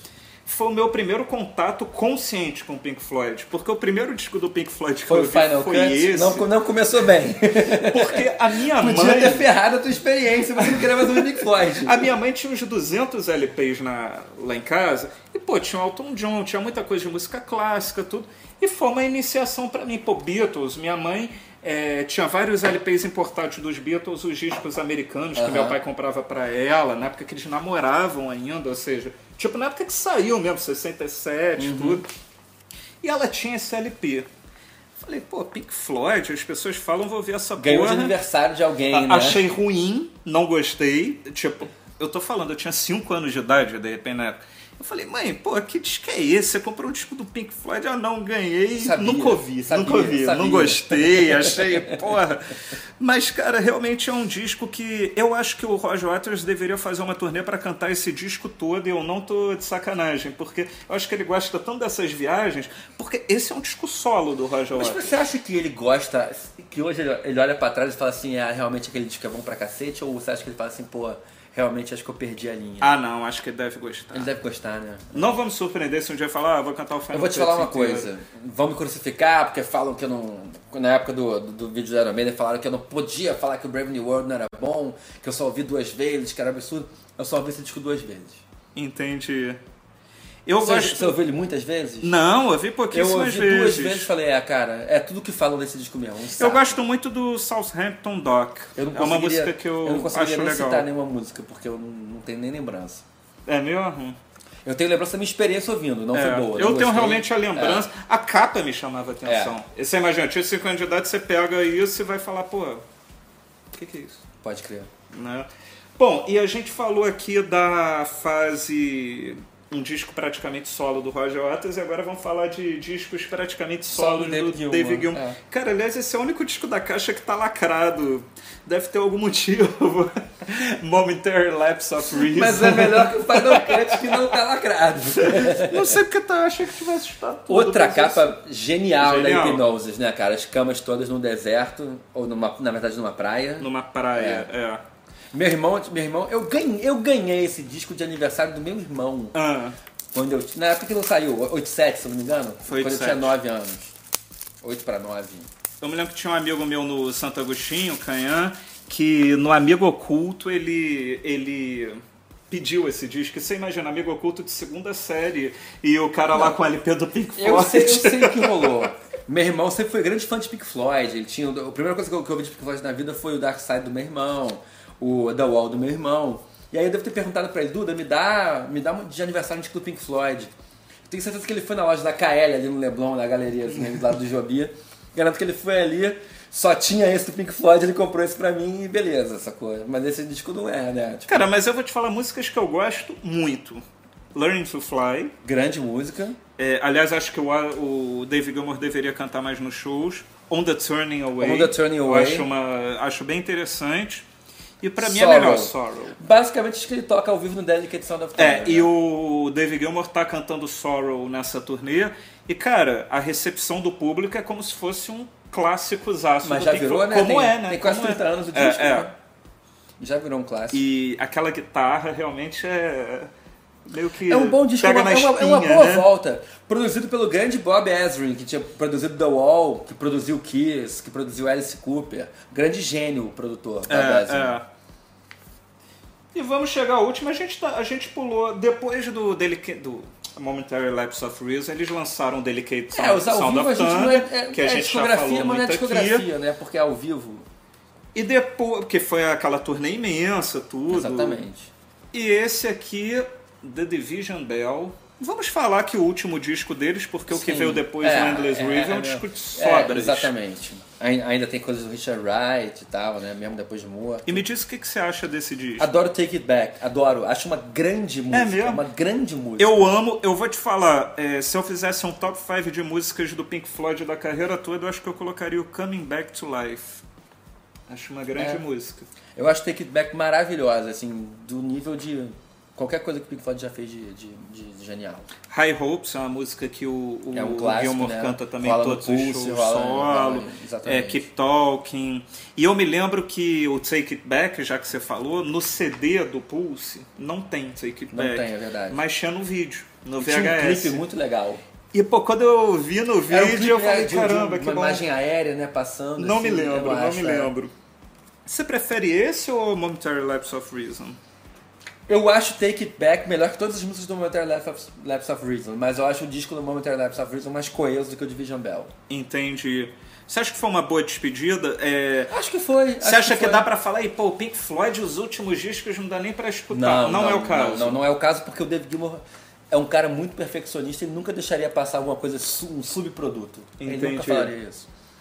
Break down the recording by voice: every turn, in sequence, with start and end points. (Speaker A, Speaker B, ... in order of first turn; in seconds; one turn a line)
Speaker A: 0.5-6.5
Speaker B: 5.1-12.0
Speaker A: 7.6-9.5
Speaker A: 10.6-32.1
Speaker B: 25.4-25.8
Speaker B: 31.6-32.0
Speaker A: 33.0-34.3
Speaker A: 35.0-38.2
Speaker B: 37.6-39.4
Speaker A: 38.9-65.1
Speaker B: 48.7-52.0
Speaker B: 64.7-72.9
Speaker A: 72.8-74.3
Speaker B: 74.1-75.3
Speaker A: 75.1-78.1
Speaker B: 77.1-88.4
Speaker A: 88.7-89.6
Speaker A: 90.5-91.2
Speaker B: 90.6-92.2
Speaker A: 92.0-94.1
Speaker B: 92.9-96.8
Speaker A: 96.4-100.9
Speaker B: 98.8-103.0
Speaker A: 103.5-104.2
Speaker B: 104.6-107.9
Speaker A: 106.1-112.8
Speaker B: 109.2-109.5
Speaker A: 113.7-114.2
Speaker B: 114.4-114.9
Speaker A: 115.1-115.5
Speaker A: 116.0-134.2
Speaker B: 123.9-125.3
Speaker B: 132.1-136.0
Speaker A: 135.2-138.3
Speaker B: 137.5-144.5
Speaker A: 139.0-139.6
Speaker A: 143.6-144.8
Speaker B: 145.3-149.3
Speaker A: 149.3-149.8
Speaker B: 150.1-153.9
Speaker A: 152.6-153.3
Speaker B: 154.6-155.5
Speaker A: 155.8-168.8
Speaker B: 166.3-166.6
Speaker B: 167.4-180.5
Speaker B: 181.1-191.4
Speaker A: 191.3-193.8
Speaker A: 194.3-195.3
Speaker B: 195.4-196.4
Speaker A: 196.6-204.2
Speaker B: 201.4-202.5
Speaker A: 204.8-206.2
Speaker B: 205.0-208.9
Speaker A: 208.4-219.1
Speaker B: 216.4-219.1
Speaker B: 220.0-220.8
Speaker A: 220.7-223.3
Speaker A: 223.9-226.1
Speaker B: 224.3-234.5
Speaker A: 233.9-234.6
Speaker A: 236.3-246.3
Speaker B: 242.9-247.4
Speaker A: 248.1-251.4
Speaker B: 250.9-251.7
Speaker A: 252.1-260.3
Speaker B: 257.3-264.4
Speaker A: 264.2-265.9
Speaker B: 265.8-269.9
Speaker A: 268.3-268.8
Speaker A: 269.6-277.0
Speaker A: 277.9-279.1
Speaker B: 278.4-278.6
Speaker B: 279.4-285.3
Speaker A: 285.5-301.0
Speaker B: 287.3-291.2
Speaker B: 298.1-299.0
Speaker B: 300.2-301.6
Speaker A: 301.9-305.0
Speaker B: 303.3-307.5
Speaker A: 306.2-307.7
Speaker A: 308.4-311.2
Speaker B: 312.1-318.9
Speaker A: 319.1-322.4
Speaker B: 322.3-323.7
Speaker A: 323.0-328.0
Speaker B: 326.7-334.9
Speaker A: 333.8-334.5